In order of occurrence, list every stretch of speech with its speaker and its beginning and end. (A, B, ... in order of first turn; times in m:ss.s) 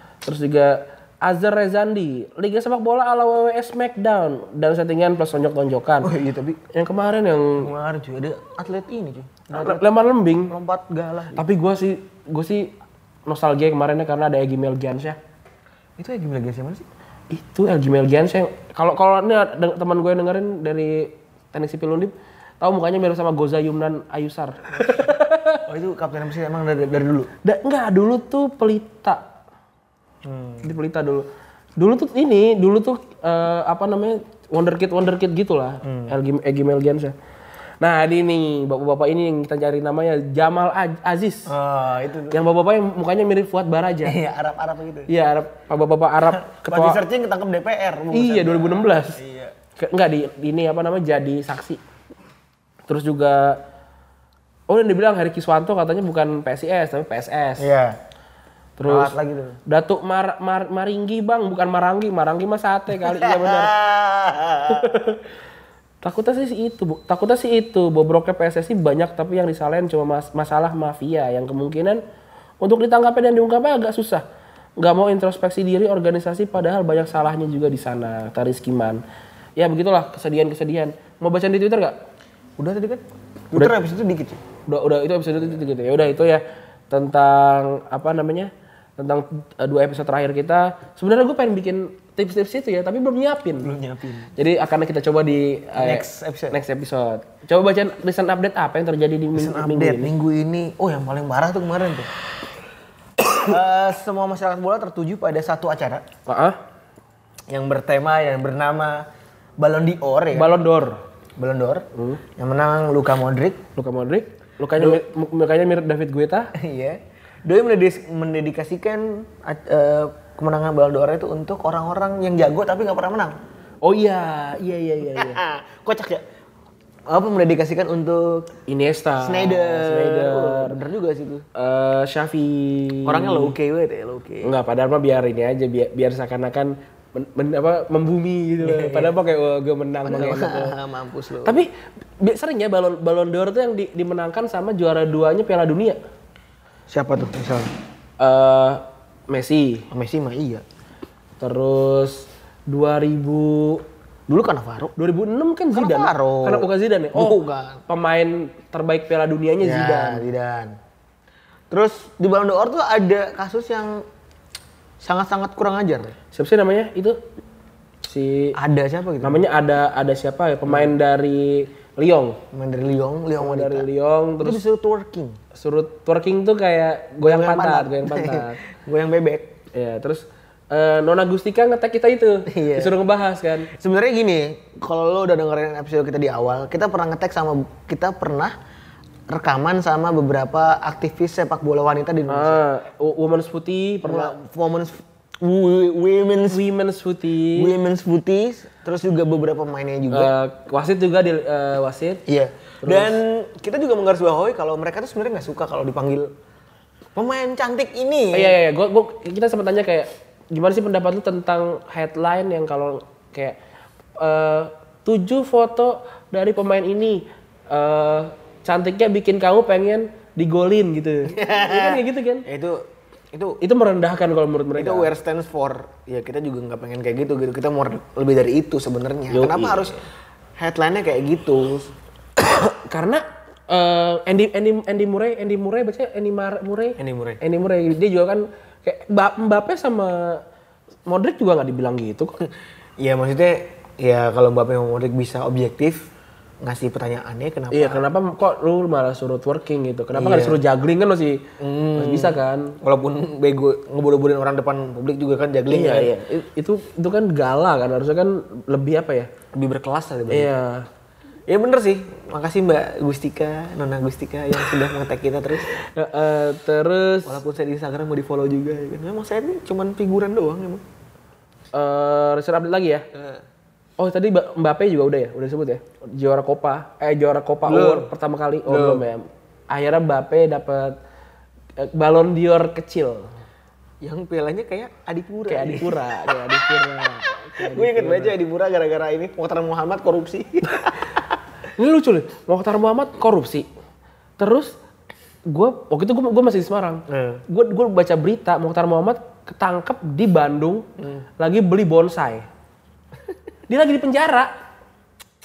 0:00.2-0:06.1 A
0:06.0-0:06.6 B
0:06.7-0:07.7 A
0:07.6-0:11.4 B
0:09.5-0:10.5 A
0:11.4-0:12.7 A
0:13.3-0:15.2 A
0:16.0-0:16.9 B
0:17.3-0:25.6 A
0:24.8-0:25.0 B
0:25.7-0:27.3 B
0:27.4-0:29.2 A
0:30.2-0:30.7 B
0:30.6-0:31.3 A
0:31.8-0:37.1 A
0:35.8-0:36.2 B
0:37.8-0:41.5 A
0:41.5-0:42.4 B
0:42.3-0:44.2 A
0:44.0-0:45.1 B
0:45.1-0:47.0 A
0:46.4-0:49.5 B
0:48.1-0:49.2 A
0:49.8-0:51.8 A
0:52.9-0:53.6 A
0:54.7-0:57.7 A
0:57.6-0:58.0 B
0:58.8-0:59.2 A
0:58.9-0:59.6 B
0:59.7-1:03.7 A
1:03.0-1:05.0 B
1:04.7-1:05.2 A
1:06.0-1:12.0 A
1:12.6-1:14.2 A
1:14.8-1:19.0 A
1:19.6-1:22.0 A
1:22.6-1:24.4 B
1:24.7-1:33.7 A
1:33.6-1:34.3 B
1:34.4-1:40.1 A
1:35.8-1:36.6 B
1:39.3-1:42.1 B
1:43.4-1:46.0 B
1:46.3-1:46.6 A
1:47.5-1:49.0 B
1:49.6-1:50.6 B
1:50.3-1:51.0 A
1:51.4-1:51.8 B
1:52.0-1:52.2 A
1:52.4-1:53.6 B
1:53.8-1:56.5 A
1:54.8-1:55.0 B
1:56.6-2:03.4 B
2:03.8-2:05.4 A
2:05.0-2:06.2 B
2:07.1-2:08.5 B
2:08.7-2:10.8 A
2:09.2-2:11.4 B
2:11.6-2:13.6 A
2:13.1-2:14.6 B
2:14.4-2:20.7 A
2:18.6-2:19.2 B
2:20.0-2:21.6 B
2:22.2-2:26.0 A
2:26.9-2:27.7 B
2:28.2-2:29.9 A
2:29.9-2:30.6 B
2:31.4-2:33.8 A
2:34.3-2:34.9 B
2:35.0-2:40.2 A
2:35.7-2:37.8 B
2:39.6-2:40.8 B
2:41.7-2:44.0 B
2:45.0-2:46.2 B
2:46.3-2:47.2 A
2:48.1-2:48.6 A
2:48.6-2:49.4 B
2:49.2-2:52.4 A
2:50.7-2:50.9 B
2:52.5-2:53.9 B
2:53.4-2:54.6 A
2:54.4-2:55.4 B
2:55.6-2:58.6 A
2:57.2-2:59.5 B
2:59.7-3:03.7 A
3:02.5-3:03.0 B
3:03.7-3:08.6 B
3:09.3-3:12.6 B
3:12.3-3:14.3 A
3:14.0-3:16.6 B
3:16.5-3:17.7 A
3:17.6-3:20.3 B
3:20.1-3:22.2 A
3:22.3-3:26.3 B
3:22.8-3:23.1 A
3:27.2-3:28.6 B
3:28.3-3:33.6 A
3:34.2-3:42.4 A
3:41.3-3:43.6 B
3:43.6-3:45.1 A
3:44.8-3:50.0 B
3:49.3-3:49.9 A
3:50.6-3:51.9 B
3:52.5-4:00.4 A
3:57.0-3:57.4 B
4:01.1-4:02.4 A
4:03.0-4:06.1 B
4:06.6-4:08.1 B
4:07.7-4:11.4 A
4:10.1-4:10.6 B
4:11.6-4:16.1 B
4:12.0-4:12.8 A
4:15.7-4:19.3 A
4:19.5-4:20.5 B
4:20.3-4:20.9 A
4:21.5-4:25.7 B
4:25.8-4:27.4 A
4:27.2-4:30.8 B
4:31.7-4:33.0 A
4:33.1-4:33.4 B
4:34.0-4:41.0 A
4:37.7-4:38.1 B
4:38.7-4:39.0 B
4:41.8-4:43.3 A
4:44.0-4:47.1 B
4:45.5-4:48.4 A
4:47.6-4:50.9 B
4:51.8-4:53.7 A
4:54.4-4:54.7 A
4:55.5-5:00.9 A
4:57.1-4:57.4 B
5:01.0-5:01.3 B
5:01.4-5:02.5 A
5:03.7-5:04.5 A